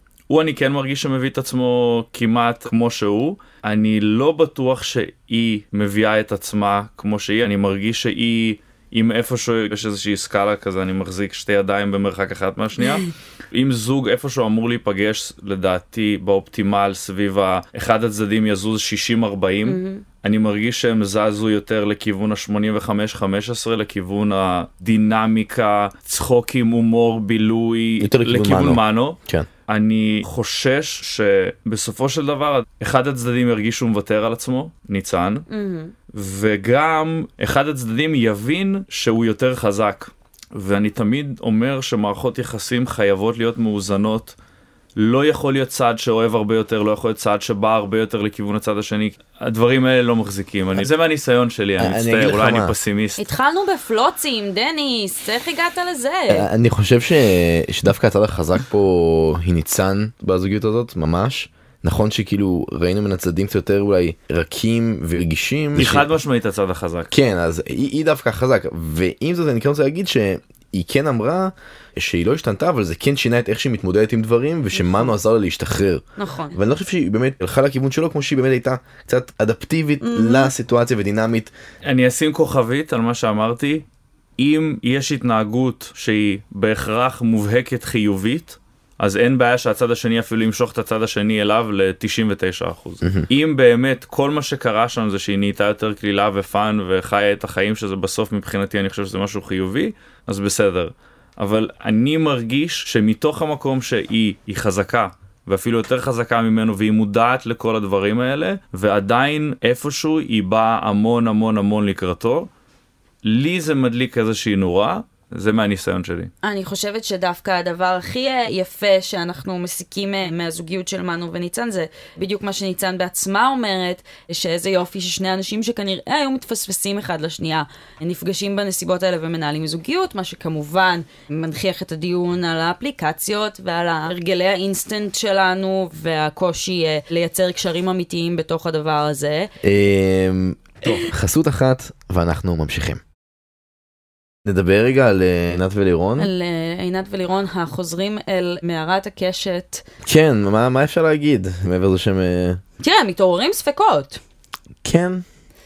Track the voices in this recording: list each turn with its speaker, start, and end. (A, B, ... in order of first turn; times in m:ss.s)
0:00.3-0:35.4 A
0:19.6-0:20.0 B
0:28.0-0:29.5 C
0:35.5-0:35.9 B
0:36.1-0:44.3 A
0:45.0-0:53.2 A
0:51.8-0:52.7 C
0:53.2-0:56.5 B
0:56.3-1:06.1 C
1:05.8-1:07.1 A
1:07.1-1:16.0 C
1:14.7-1:15.1 B
1:16.2-1:16.6 B
1:16.5-1:21.5 C
1:20.0-1:20.5 B
1:21.8-1:23.8 A
1:24.4-1:52.5 A
1:33.0-1:33.3 C
1:53.2-1:56.3 A
1:56.4-2:19.5 B
2:19.6-2:23.0 C
2:24.4-2:26.3 C
2:26.2-2:29.8 B
2:30.0-2:32.6 C
2:32.8-2:34.2 B
2:34.8-2:35.2 C